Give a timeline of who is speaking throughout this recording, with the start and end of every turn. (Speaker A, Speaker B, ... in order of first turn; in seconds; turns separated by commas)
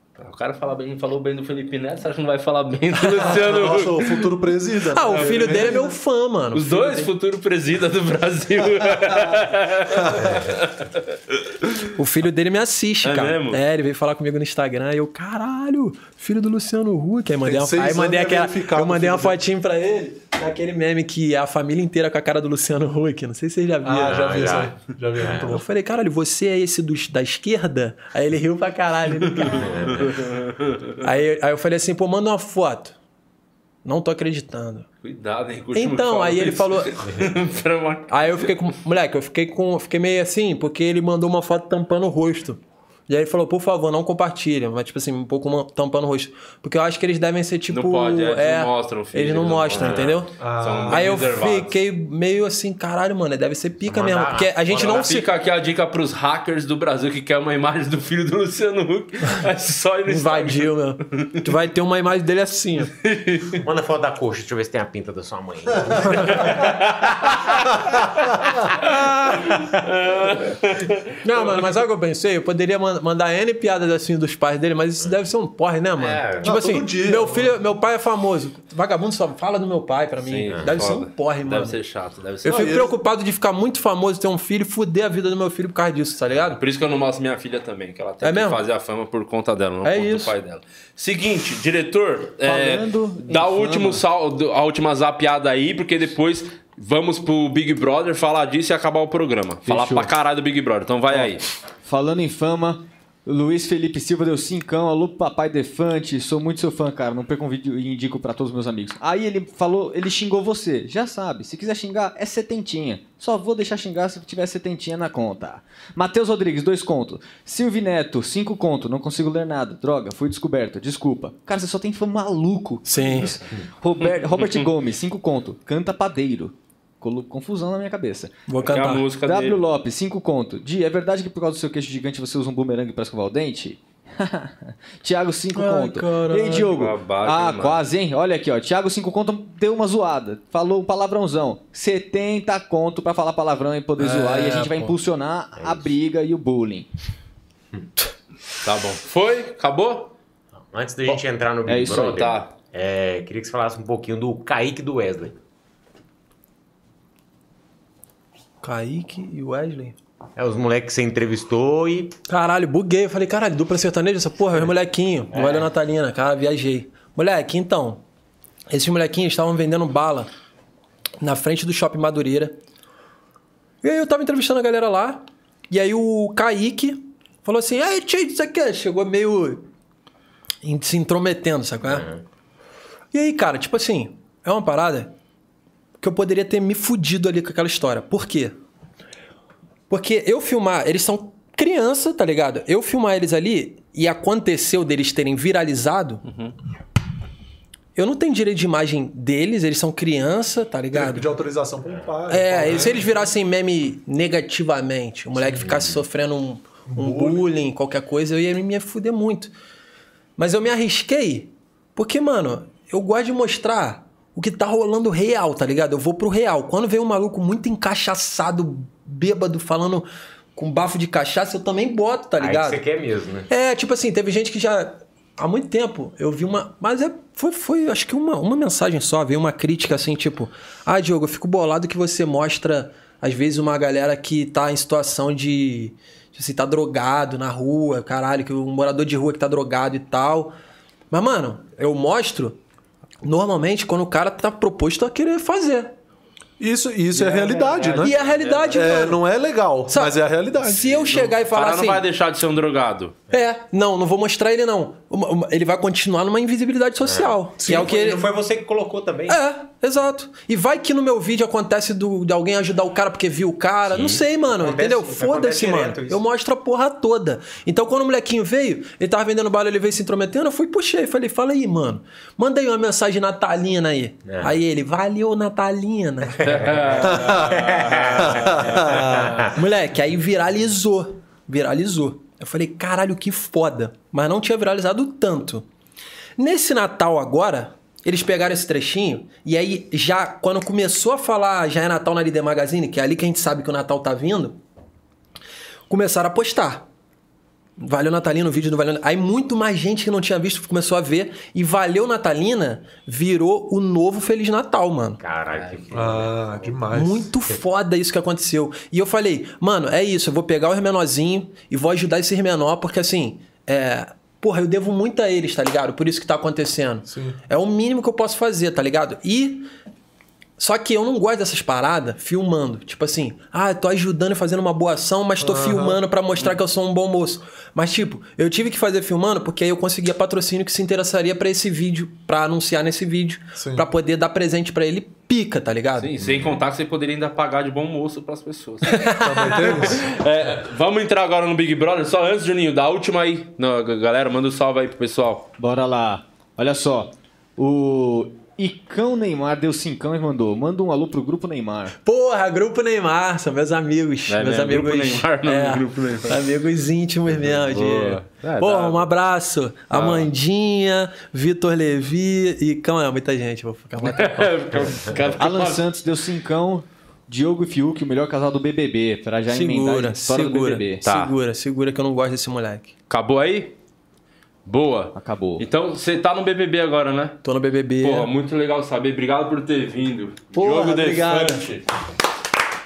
Speaker A: 0.2-4.3, Speaker B: 3.2-5.7, Speaker C: 4.9-7.1, Speaker A: 5.1-5.8, Speaker A: 6.5-11.9, Speaker C: 11.9-24.6, Speaker A: 13.0-13.6, Speaker B: 17.4-19.4, Speaker B: 23.8-25.6, Speaker D: 24.0-25.5, Speaker C: 25.4-29.8, Speaker A: 29.4-30.9, Speaker D: 29.6-30.0, Speaker C: 31.0-33.0, Speaker C: 33.8-34.9, Speaker A: 35.0-38.5, Speaker C: 35.7-36.9, Speaker C: 38.1-50.3, Speaker A: 47.7-51.7, Speaker D: 49.7-50.2, Speaker B: 50.4-51.4, Speaker C: 50.9-55.3, Speaker D: 53.8-55.1, Speaker A: 54.7-60.7, Speaker C: 60.1-62.9, Speaker A: 63.0-63.6, Speaker D: 63.6-66.6, Speaker A: 66.3-67.6, Speaker A: 68.8-71.1, Speaker C: 71.2-81.8, Speaker D: 76.0-76.5, Speaker B: 76.4-77.5, Speaker A: 80.2-82.8, Speaker D: 80.5-80.8, Speaker B: 82.4-82.9, Speaker C: 82.5-86.6, Speaker A: 86.4-101.4, Speaker C: 88.2-88.6, Speaker C: 89.8-90.3, Speaker E: 92.4-94.0, Speaker E: 99.6-100.1, Speaker E: 101.8-123.2, Speaker C: 122.8-123.5, Speaker E: 123.8-128.3, Speaker A: 124.0-124.7, Speaker C: 128.5-129.1, Speaker A: 128.6-129.6, Speaker E: 129.2-146.9, Speaker C: 135.5-136.7, Speaker A: 136.5-137.8, Speaker C: 144.0-144.9, Speaker D: 145.6-145.9, Speaker A: 148.6-150.1, Speaker D: 150.6-155.3, Speaker E: 151.7-152.2, Speaker A: 152.0-152.5, Speaker C: 158.6-159.9, Speaker D: 160.4-162.1, Speaker C: 162.3-168.0, Speaker D: 165.3-165.7, Speaker C: 168.7-170.3, Speaker C: 171.2-172.6, Speaker C: 173.8-179.6, Speaker C: 180.6-182.1, Speaker D: 181.9-182.2, Speaker C: 183.1-185.1, Speaker C: 186.0-188.6, Speaker C: 189.9-196.2, Speaker A: 196.2-196.5, Speaker C: 197.9-201.2, Speaker B: 200.9-203.2, Speaker C: 202.3-209.5, Speaker D: 205.6-206.0, Speaker B: 206.9-207.5, Speaker C: 210.4-222.8, Speaker D: 222.4-223.5, Speaker C: 223.5-240.5, Speaker C: 241.1-242.6, Speaker C: 243.2-245.9, Speaker B: 246.6-248.1, Speaker A: 247.1-249.0, Speaker C: 248.0-249.2, Speaker B: 248.7-251.1, Speaker C: 249.9-252.0, Speaker A: 250.8-253.2, Speaker C: 253.3-258.2, Speaker D: 257.0-259.4, Speaker B: 257.6-257.9, Speaker C: 259.3-277.2, Speaker D: 263.9-266.2, Speaker D: 274.2-274.6, Speaker D: 276.4-279.6, Speaker A: 276.4-279.2, Speaker B: 277.0-277.6, Speaker B: 278.2-279.1, Speaker C: 278.9-285.6, Speaker C: 286.4-294.6, Speaker C: 295.9-296.9, Speaker C: 297.8-305.2, Speaker D: 305.2-306.6, Speaker A: 305.5-306.1, Speaker B: 305.9-307.3, Speaker C: 306.9-319.7, Speaker B: 317.1-317.4, Speaker C: 320.6-336.1, Speaker B: 325.4-326.0, Speaker B: 333.6-333.8, Speaker A: 336.0-345.5, Speaker D: 336.2-336.5, Speaker C: 338.9-340.0, Speaker B: 339.2-340.1, Speaker E: 345.6-351.9, Speaker C: 352.0-364.6, Speaker A: 354.3-356.5, Speaker A: 357.7-359.1, Speaker A: 359.9-360.3, Speaker A: 364.0-365.8, Speaker E: 365.4-371.1, Speaker C: 369.5-372.9, Speaker A: 371.1-371.3, Speaker A: 373.1-373.7, Speaker A: 374.6-377.4, Speaker E: 375.1-375.6, Speaker C: 377.4-378.3, Speaker A: 378.0-381.9, Speaker C: 380.5-381.6